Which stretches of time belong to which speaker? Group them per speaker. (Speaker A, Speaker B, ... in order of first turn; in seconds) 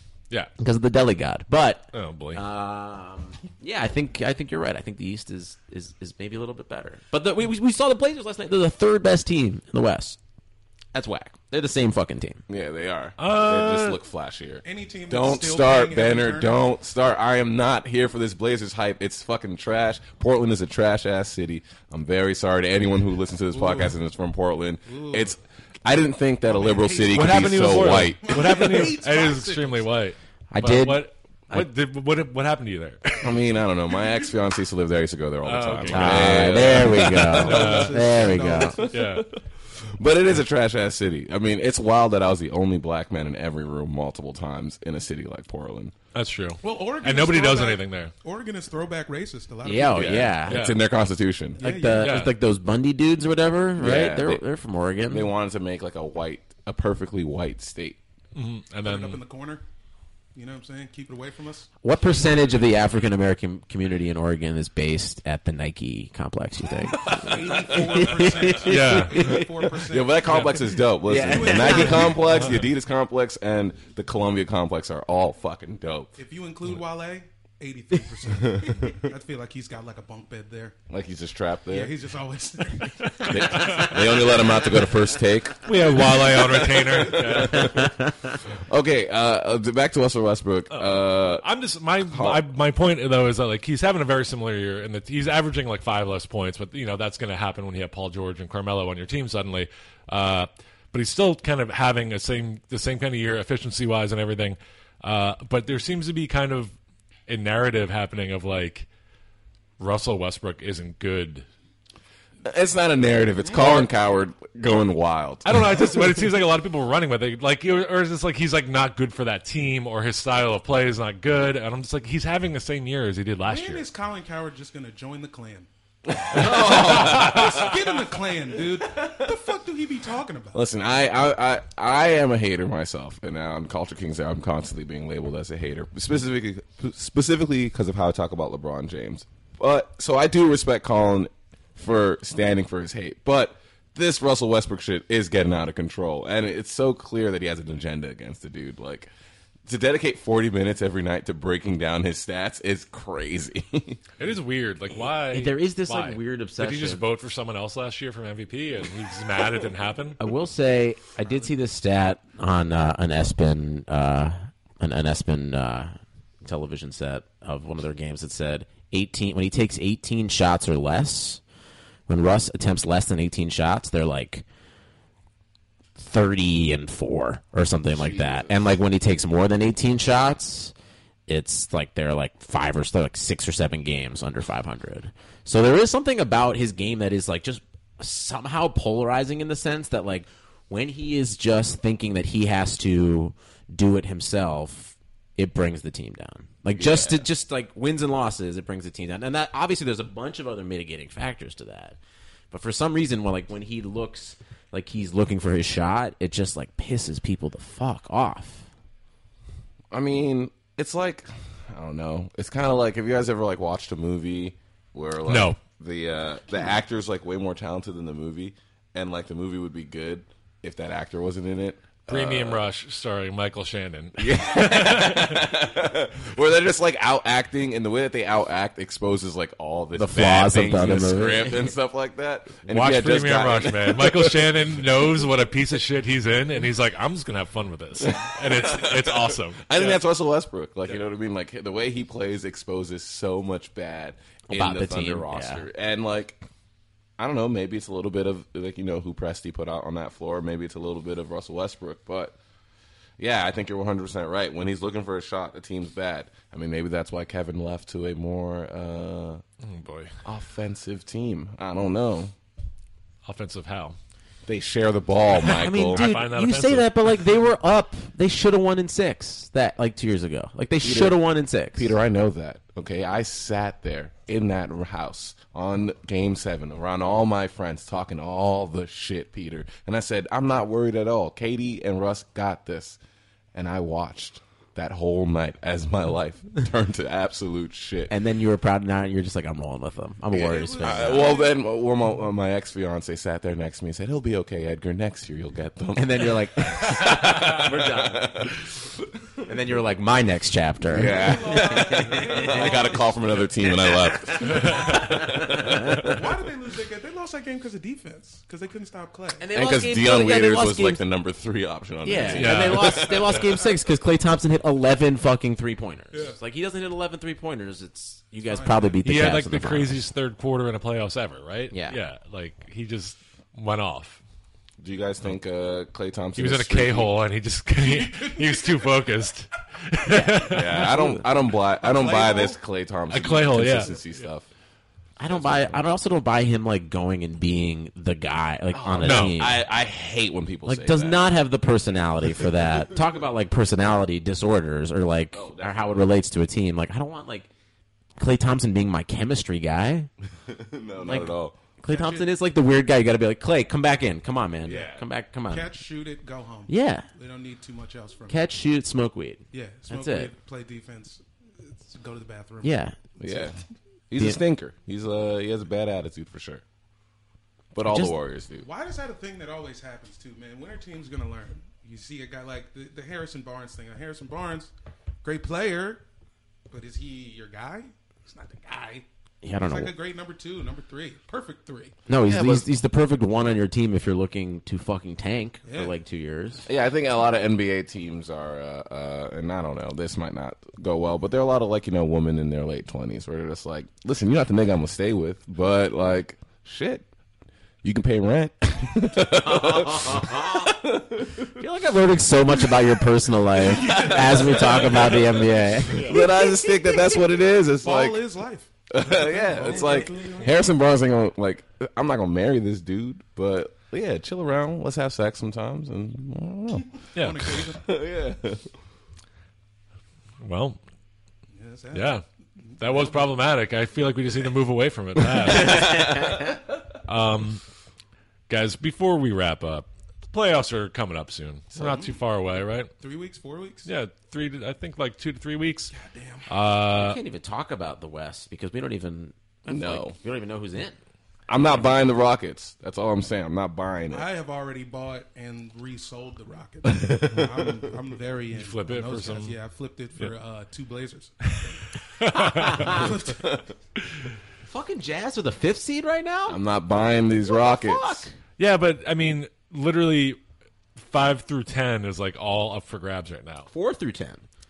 Speaker A: 0.6-10.2, 10.9-12.4, 30.5-31.7, 35.9-38.8, 49.6-50.7, 51.6-55.3, 61.8-69.5, 71.0-72.2, 87.5-88.3, 155.3-157.0, 160.2-171.4, 172.1-174.4, 176.0-180.7, 181.3-202.0, 202.5-208.7, 229.9-231.7, 244.5-245.6, 265.4-271.9, 288.1-291.3, 295.9-298.3, 299.4-303.0, 303.6-305.9, 309.4-311.0, 312.0-320.0, 321.7-322.0, 330.1-331.1, 335.2-339.6, 340.6-347.5, 348.2-350.1, 351.0-355.7, 356.7-357.1, 358.3-360.3, 362.6-363.0, 367.8-368.1, 379.4-379.9, 382.1-386.7, 399.4-400.7, 401.5-407.0, 425.6-426.4, 436.9-441.0, 452.3-453.1, 454.6-456.6, 457.4-458.3, 463.7-464.4
Speaker B: 1.9-2.4, 13.2-14.0, 27.1-33.4, 35.4-39.2, 46.1-48.1, 50.4-50.8, 52.0-52.3, 58.3-59.2, 68.6-69.4, 70.2-70.6, 72.3-72.7, 83.2-84.0, 85.6-87.8, 90.7-106.7, 107.3-108.9, 109.8-111.5, 113.5-113.9, 115.4-123.9, 126.3-127.7, 154.2-160.2, 215.2-215.6, 222.1-225.5, 232.7-240.0, 259.6-260.1, 263.2-264.0, 265.9-266.9, 304.5-304.9, 312.3-313.4, 319.0-324.2, 326.4-331.0, 333.1-334.0, 339.0-339.4, 405.9-406.2, 417.1-417.7, 420.4-420.8, 421.9-422.2, 422.8-426.1, 427.0-427.6, 428.5-432.9, 433.9-435.9, 436.5-437.2, 448.5-449.6, 451.5-452.9, 458.6-460.4, 461.0-463.7
Speaker C: 12.5-28.7, 33.2-37.7, 38.6-45.9, 49.9-51.6, 53.8-54.4, 55.1-58.0, 69.8-76.1, 78.3-79.0, 80.9-82.0, 83.3-91.4, 92.1-92.4, 112.4-115.7, 126.1-127.7, 130.5-149.1, 149.7-154.0, 177.9-178.6, 196.7-197.3, 209.9-222.6, 224.2-234.8, 238.0-246.4, 247.2-252.3, 253.2-259.4, 260.2-262.3, 264.4-266.0, 270.8-271.2, 271.7-283.0, 283.5-288.1, 290.3-298.8, 300.9-306.2, 309.5-313.0, 324.8-327.1, 330.5-334.5, 335.2-335.9, 338.7-341.3, 345.3-346.0, 350.4-351.6, 354.6-355.1, 363.2-363.6, 364.1-366.6, 367.7-368.6, 382.2-382.7, 386.6-397.1, 397.8-401.5, 403.9-405.2, 405.9-408.3, 408.9-416.9, 417.7-418.7, 425.5-426.5, 439.7-440.1, 441.5-444.3, 446.9-447.9, 456.5-458.3
Speaker D: 14.6-16.6, 23.5-24.0, 24.8-25.4, 26.4-29.9, 37.1-39.0, 46.6-50.4, 51.6-52.2, 58.8-59.6, 60.3-61.7, 67.0-70.6, 71.1-72.4, 76.2-80.8, 81.7-83.9, 123.5-125.7, 126.5-130.6, 290.4-291.6, 300.9-303.2, 306.1-309.4, 318.5-319.0, 327.8-329.0, 331.8-332.6, 351.8-352.3, 355.5-358.4, 359.5-363.5, 368.6-374.7, 375.2-376.0, 376.7-382.0, 385.6-385.9, 403.6-405.3, 407.8-410.6, 417.1-417.8, 421.5-423.3, 431.8-432.1, 433.0-433.9, 435.9-436.5, 444.1-451.8, 452.8-453.4